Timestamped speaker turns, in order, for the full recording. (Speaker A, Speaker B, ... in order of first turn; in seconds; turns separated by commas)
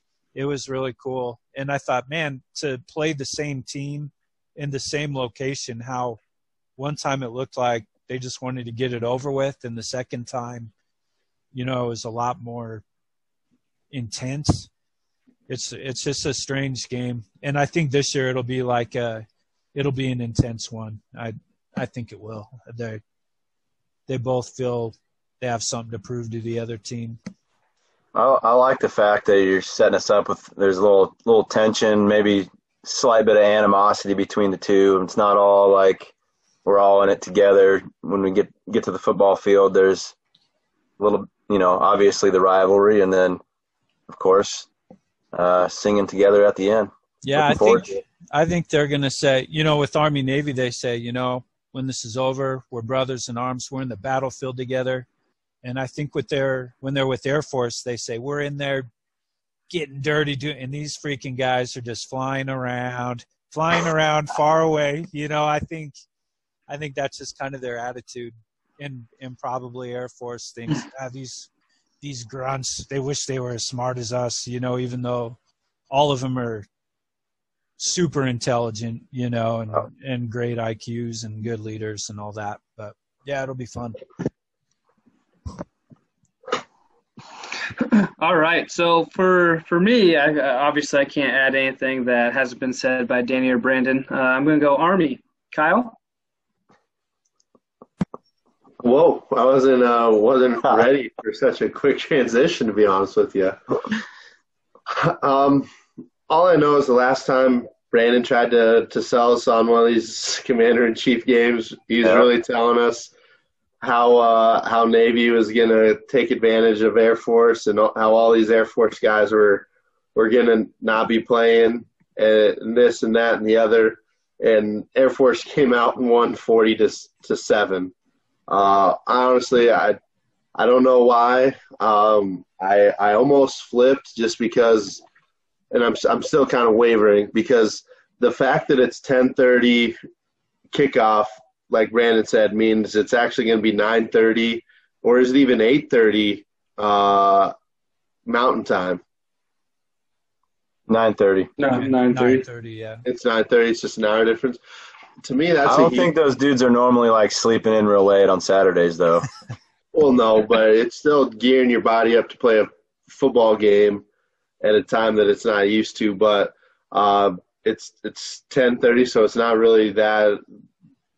Speaker A: 0.3-6.2, Speaker A: 6.8-10.7, Speaker A: 11.5-12.8, Speaker A: 13.9-14.7, Speaker A: 15.5-19.2, Speaker A: 19.7-23.0, Speaker A: 24.1-27.2, Speaker B: 28.1-36.1, Speaker B: 36.6-40.1, Speaker B: 41.0-43.4, Speaker B: 44.1-44.7, Speaker B: 45.3-47.9, Speaker A: 47.2-55.1, Speaker A: 55.6-58.9, Speaker A: 59.7-65.9, Speaker A: 66.7-71.5, Speaker A: 72.0-75.4, Speaker A: 75.9-76.7, Speaker A: 77.8-84.0, Speaker C: 87.8-95.9, Speaker D: 98.8-103.6, Speaker D: 104.9-105.7, Speaker D: 106.3-113.1, Speaker D: 113.8-127.9, Speaker D: 128.5-130.0, Speaker D: 130.5-135.0, Speaker D: 135.7-140.0, Speaker D: 140.7-147.5, Speaker D: 148.2-149.0, Speaker B: 150.9-151.5, Speaker C: 151.6-152.4, Speaker A: 151.7-153.0, Speaker D: 153.0-154.6, Speaker D: 155.2-156.1, Speaker B: 155.6-159.3, Speaker D: 159.9-164.0, Speaker D: 164.6-170.4